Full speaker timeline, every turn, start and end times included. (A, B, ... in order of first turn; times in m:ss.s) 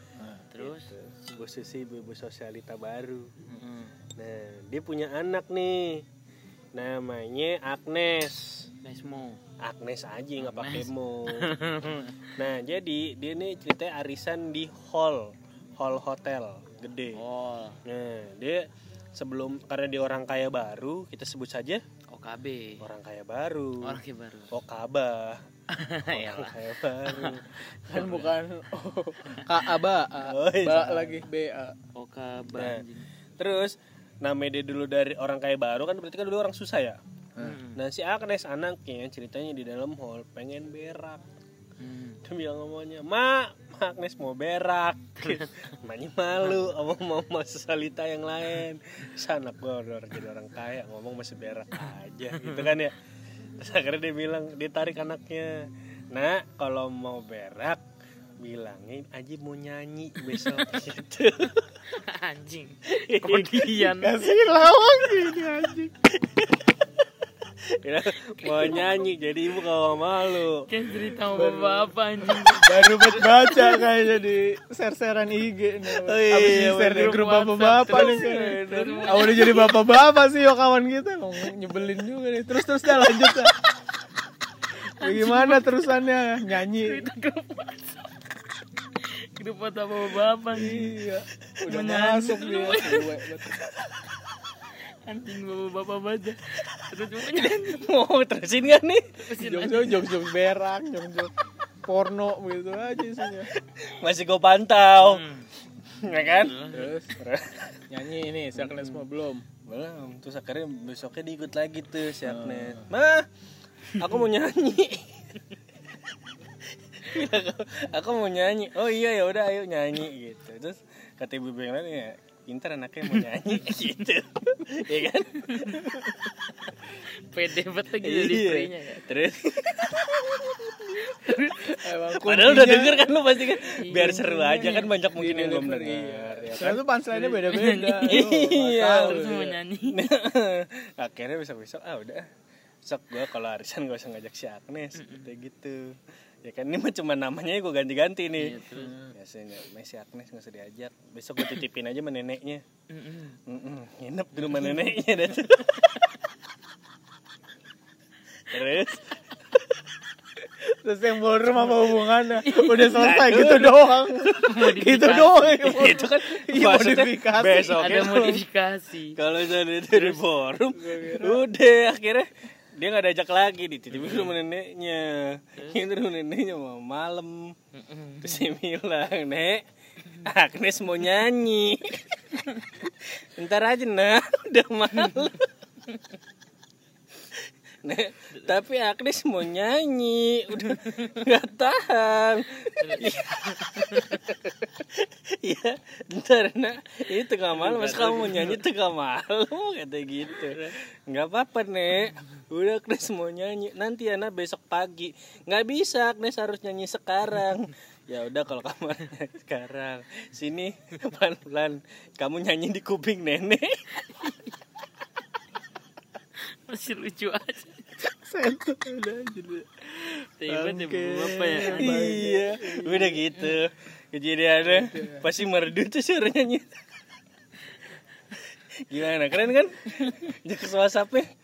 0:00.5-0:00.9 A
0:00.6-0:03.3 B
0:03.5-0:03.9 A
0:04.2-0:06.0 B
0:06.7-0:08.7 B
0:08.8-0:09.4 A
0:09.6-0:17.2 B
0:10.4-0:12.3 A
0:17.1-0:17.8 A
0:17.8-0:21.8 B
0:22.1-0:22.8 A
0:22.8-0:24.0 B
0:23.8-0:24.5 A
0:24.5-0:25.4 B
0:25.7-0:28.3 A
0:26.0-0:28.1 B
0:27.9-0:31.8 C
0:30.2-0:31.3 B
0:31.9-0:33.1 A
0:32.5-0:32.8 B
0:33.4-0:37.0 B
0:37.4-0:37.8 A
0:37.7-0:41.2 B
0:41.8-0:42.2 A
0:42.2-0:53.0 B
0:45.2-0:45.7 A
0:52.4-0:52.7 A
0:53.6-0:57.8 B
0:58.4-1:01.7 B
1:01.8-1:04.3 A
1:02.9-1:04.0 B
1:04.0-1:06.0 C
1:06.2-1:06.6 B
1:07.7-1:10.7 B
1:08.4-1:09.0 A
1:10.7-1:13.8 A
1:11.3-1:23.5 C
1:15.9-1:17.2 B
1:16.5-1:19.8 A
1:17.9-1:19.6 B
1:25.0-1:25.8 A
1:25.0-1:27.0 C
1:26.6-1:28.0 A
1:29.0-1:31.0 A
1:30.5-1:33.6 C
1:31.6-1:33.1 A
1:33.5-1:34.1 B
1:35.0-1:37.9 A
1:37.3-1:39.2 B
1:39.2-1:40.1 A
1:39.4-1:41.3 C
1:41.9-1:43.5 C
1:43.5-1:45.2 B
1:45.0-1:45.5 A
1:45.8-1:46.7 B
1:46.3-1:46.9 A
1:46.7-1:47.1 C
1:47.2-1:47.8 B
1:47.9-1:49.5 C
1:48.5-1:49.1 B
1:49.6-1:53.3 B
1:52.3-1:52.8 C
1:53.9-1:55.4 B
1:56.6-2:05.9 B
2:03.1-2:03.9 A
2:05.4-2:05.9 A
2:07.3-2:09.0 A
2:08.0-2:16.8 B
2:11.0-2:11.8 A
2:11.6-2:19.6 C
2:13.6-2:14.9 A
2:17.1-2:20.0 A
2:18.0-2:19.3 B
2:19.9-2:22.2 B
2:22.8-2:28.6 B
2:24.9-2:25.3 A
2:28.4-2:29.1 A
2:29.1-2:32.6 B
2:32.9-2:33.4 A
2:33.5-2:36.1 B
2:34.4-2:34.9 A
2:38.4-2:39.8 B
2:40.6-2:47.9 C
2:41.5-2:41.9 B
2:42.4-2:43.1 A
2:42.8-2:48.4 B
2:44.3-2:45.4 A
2:47.7-2:49.2 A
2:49.2-2:57.6 B
2:50.7-2:51.4 C
2:57.7-2:58.5 A
2:58.2-2:59.6 B
3:00.2-3:05.4 B
3:05.0-3:05.3 A
3:07.3-3:33.8 B
3:10.7-3:11.2 A
3:12.8-3:14.3 A
3:17.5-3:18.6 A
3:20.4-3:20.8 A
3:34.1-3:34.5 A
3:36.6-3:37.9 A
3:38.1-3:43.2 C
3:40.4-3:42.2 A
3:41.6-3:46.7 B
3:44.7-3:45.2 C
3:48.7-3:51.3 B
3:50.0-3:50.3 A